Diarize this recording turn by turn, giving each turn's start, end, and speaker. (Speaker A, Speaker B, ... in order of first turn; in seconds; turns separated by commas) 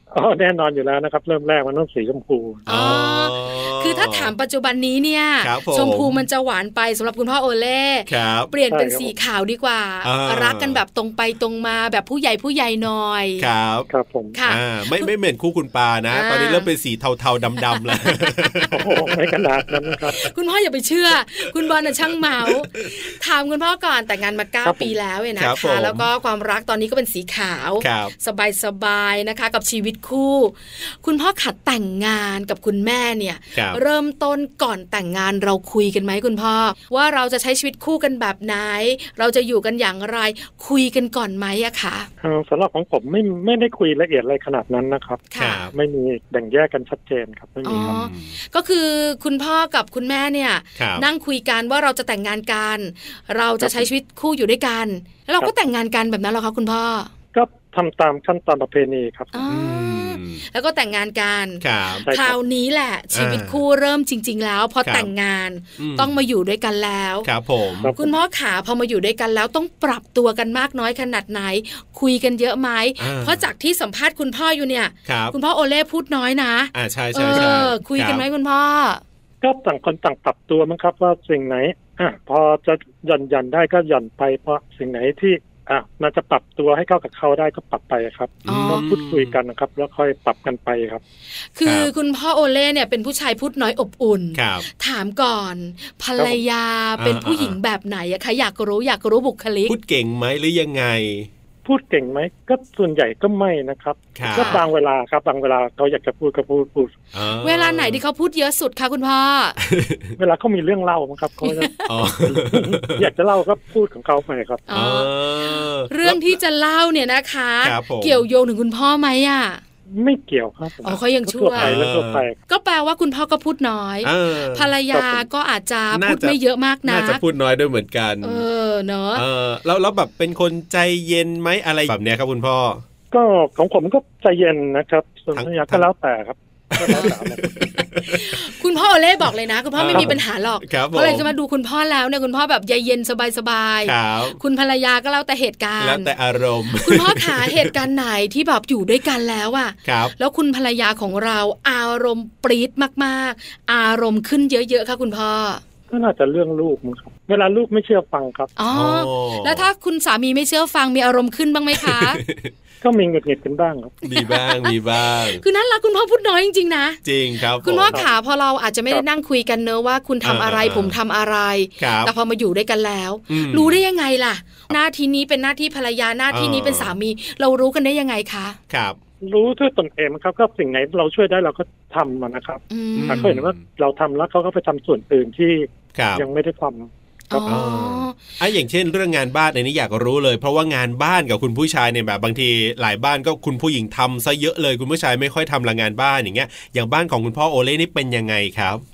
Speaker A: 0.1-2.7, Speaker B: 2.7-4.3, Speaker C: 2.7-13.4, Speaker B: 5.4-6.2, Speaker B: 8.1-8.5, Speaker A: 8.7-9.1, Speaker B: 10.0-10.8, Speaker B: 13.4-13.9, Speaker A: 13.9-14.3, Speaker C: 14.3-15.1, Speaker B: 14.4-18.9, Speaker C: 16.1-16.7, Speaker C: 17.7-18.7, Speaker A: 18.7-20.2, Speaker C: 20.1-42.1, Speaker B: 21.6-22.9, Speaker A: 24.6-24.9, Speaker B: 25.4-26.1, Speaker B: 27.8-28.1, Speaker B: 33.5-33.8, Speaker A: 42.2-47.9, Speaker C: 45.3-45.7, Speaker B: 45.4-45.7, Speaker C: 47.6-57.1, Speaker B: 47.7-48.4, Speaker B: 50.8-51.0, Speaker A: 53.6-53.9, Speaker A: 57.3-59.3, Speaker C: 59.3-67.3, Speaker B: 59.5-60.4, Speaker B: 61.6-62.0, Speaker A: 62.0-62.4, Speaker B: 63.1-63.6, Speaker B: 64.8-65.1, Speaker B: 65.8-66.2, Speaker B: 67.2-67.9, Speaker A: 67.8-68.1, Speaker C: 67.8-79.0, Speaker B: 73.0-73.5, Speaker B: 75.0-75.3, Speaker B: 76.7-78.2, Speaker A: 79.4-91.0, Speaker C: 88.5-88.8, Speaker B: 88.5-89.3, Speaker C: 91.5-99.8, Speaker B: 91.6-91.9, Speaker B: 94.3-94.7, Speaker B: 97.0-97.6, Speaker B: 99.7-101.3, Speaker A: 101.6-106.9, Speaker B: 104.2-104.6, Speaker C: 104.3-104.6, Speaker B: 107.1-108.0, Speaker C: 107.4-109.6, Speaker B: 109.6-110.1, Speaker A: 110.2-114.6, Speaker C: 111.4-111.9, Speaker B: 111.9-113.0, Speaker C: 114.7-119.6, Speaker B: 114.7-116.3, Speaker B: 117.6-118.2, Speaker A: 119.9-122.4, Speaker C: 120.8-121.8, Speaker B: 121.5-122.2, Speaker C: 122.5-127.2, Speaker B: 124.0-124.7, Speaker A: 124.9-125.2, Speaker B: 125.9-128.4, Speaker C: 128.2-129.2, Speaker B: 129.1-132.8, Speaker A: 133.1-137.6, Speaker B: 135.3-135.9, Speaker B: 136.7-138.4, Speaker C: 136.9-146.1, Speaker B: 139.8-141.3, Speaker A: 139.9-140.2, Speaker B: 143.8-144.4, Speaker B: 145.8-147.7, Speaker C: 146.7-155.6, Speaker B: 149.8-150.1, Speaker A: 155.9-158.5, Speaker C: 158.6-162.2, Speaker B: 158.7-159.7, Speaker B: 161.8-162.5, Speaker A: 162.8-164.0, Speaker B: 164.0-165.4, Speaker C: 164.1-167.0, Speaker B: 167.0-168.0, Speaker C: 167.6-178.6, Speaker A: 167.9-168.2, Speaker B: 170.2-171.0, Speaker B: 171.8-172.1, Speaker B: 173.3-173.8, Speaker B: 176.3-176.9, Speaker B: 178.7-179.0, Speaker A: 179.2-187.5, Speaker C: 182.7-183.2, Speaker B: 182.9-183.6, Speaker B: 185.9-186.2, Speaker C: 187.3-188.2, Speaker B: 187.4-198.8